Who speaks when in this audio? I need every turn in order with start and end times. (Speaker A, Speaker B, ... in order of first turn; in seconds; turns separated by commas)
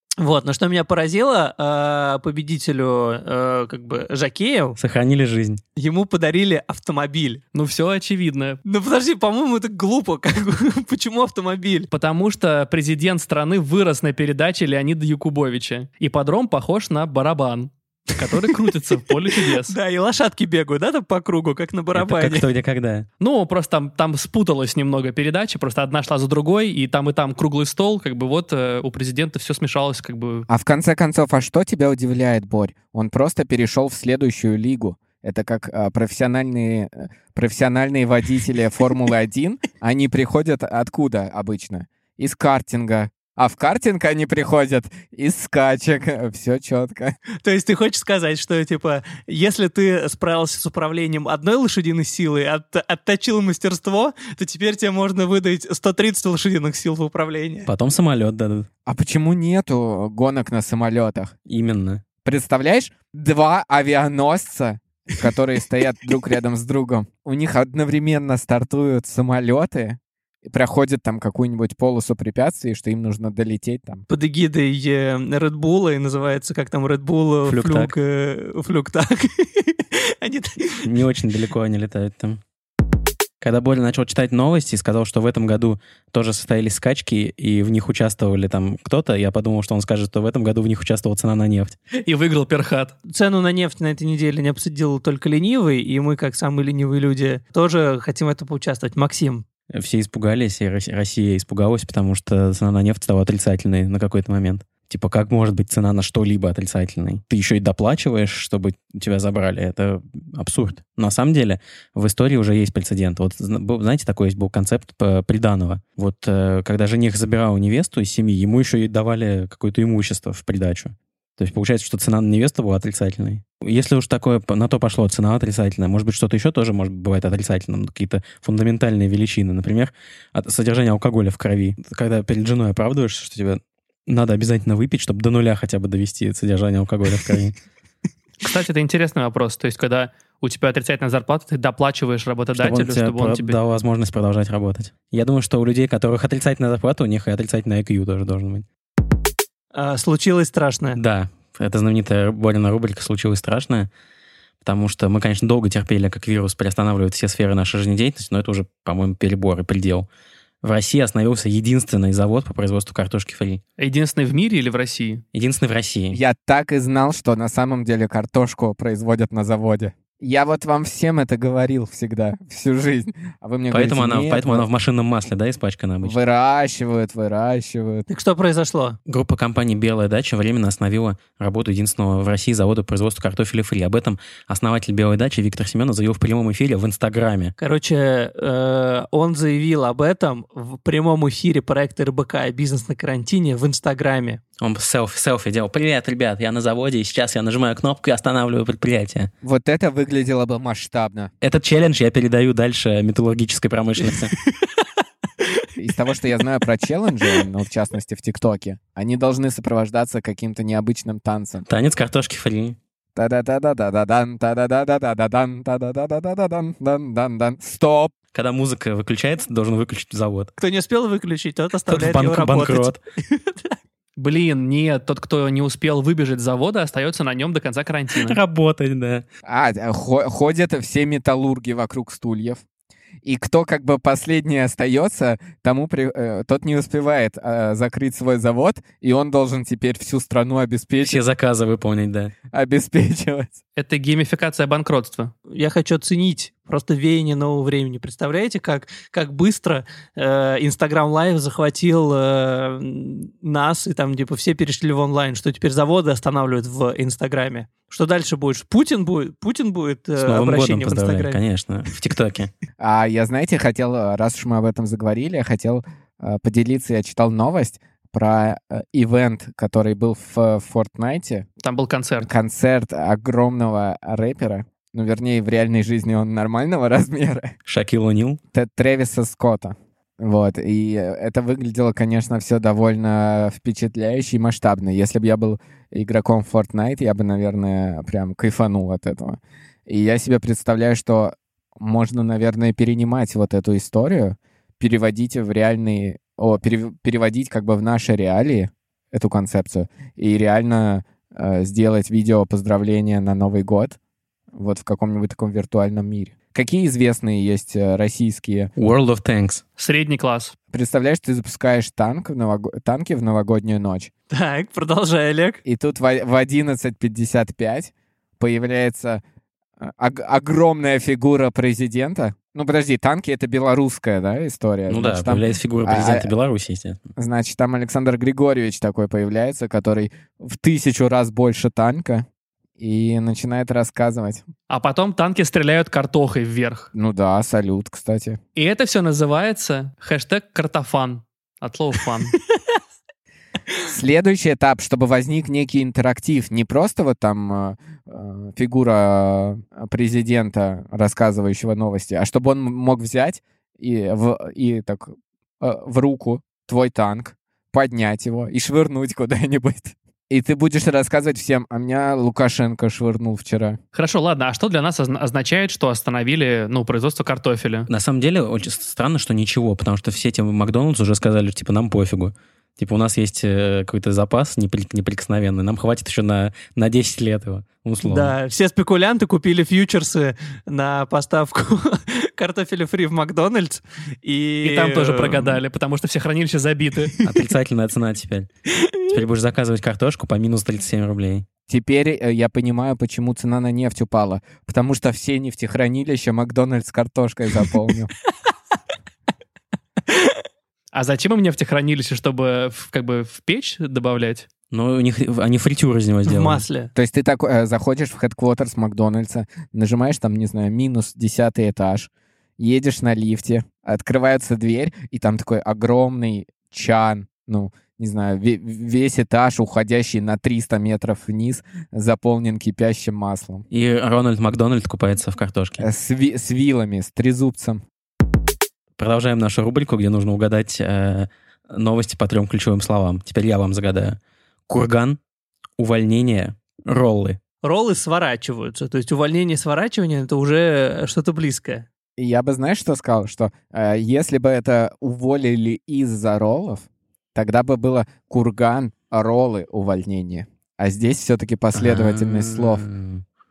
Speaker A: 0.2-4.8, Speaker B: 4.8-5.6, Speaker A: 5.8-7.4, Speaker C: 7.5-8.6, Speaker A: 8.6-11.9, Speaker C: 11.9-19.7, Speaker A: 19.4-22.4, Speaker B: 21.9-23.1, Speaker C: 23.2-30.5, Speaker D: 30.5-47.2, Speaker A: 47.4-57.7, Speaker B: 57.7-58.7, Speaker D: 58.9-61.3, Speaker B: 61.5-62.0, Speaker D: 62.2-74.0, Speaker A: 74.1-80.9, Speaker B: 77.4-77.9, Speaker B: 80.8-82.4, Speaker B: 83.4-91.8, Speaker C: 92.0-92.9, Speaker A: 93.1-99.4, Speaker B: 99.7-137.6, Speaker C: 138.4-143.6, Speaker B: 142.6-148.6, Speaker A: 149.7-151.0, Speaker B: 150.9-153.9, Speaker B: 154.6-160.1, Speaker B: 160.6-163.6, Speaker C: 163.8-165.2, Speaker B: 165.3-166.2, Speaker D: 166.1-174.7, Speaker B: 173.7-176.2, Speaker D: 176.0-178.1, Speaker A: 178.1-179.0, Speaker B: 179.1-187.5, Speaker A: 187.6-194.4, Speaker B: 194.6-199.3, Speaker D: 199.4-201.3, Speaker B: 201.4-204.3, Speaker D: 205.8-211.7, Speaker B: 211.7-212.8, Speaker D: 213.1-218.1, Speaker B: 218.3-220.5, Speaker A: 220.6-223.7, Speaker B: 221.9-223.0, Speaker C: 224.2-228.4, Speaker B: 228.2-229.2, Speaker D: 229.4-232.6, Speaker D: 233.2-241.2, Speaker B: 241.0-242.3, Speaker D: 242.5-243.5, Speaker C: 243.8-245.3, Speaker A: 245.5-261.4, Speaker B: 260.2-262.5, Speaker D: 262.8-271.4, Speaker C: 271.6-272.3, Speaker D: 272.2-277.5, Speaker B: 277.6-278.4, Speaker D: 278.5-304.0, Speaker D: 304.5-308.7, Speaker B: 308.8-309.6, Speaker C: 309.8-310.5, Speaker D: 310.7-314.1, Speaker A: 314.3-315.6, Speaker D: 315.6-319.2, Speaker D: 319.8-326.3, Speaker B: 324.9-327.1, Speaker D: 327.1-332.2, Speaker D: 332.8-334.4, Speaker C: 334.7-336.9, Speaker D: 336.9-338.4, Speaker C: 338.6-342.3, Speaker D: 343.9-363.8, Speaker C: 363.9-367.9, Speaker B: 367.9-378.3, Speaker A: 378.0-385.6, Speaker C: 384.6-387.2, Speaker B: 387.2-388.5, Speaker A: 388.8-389.2, Speaker B: 389.1-391.4, Speaker D: 391.7-398.1, Speaker C: 400.9-404.5, Speaker B: 404.7-406.6, Speaker A: 406.2-406.9, Speaker D: 406.9-423.6, Speaker B: 423.7-425.9, Speaker D: 425.8-427.8, Speaker B: 429.0-434.2, Speaker B: 434.7-435.2, Speaker B: 435.8-437.4, Speaker A: 437.6-441.9, Speaker D: 442.2-452.9, Speaker B: 451.7-453.2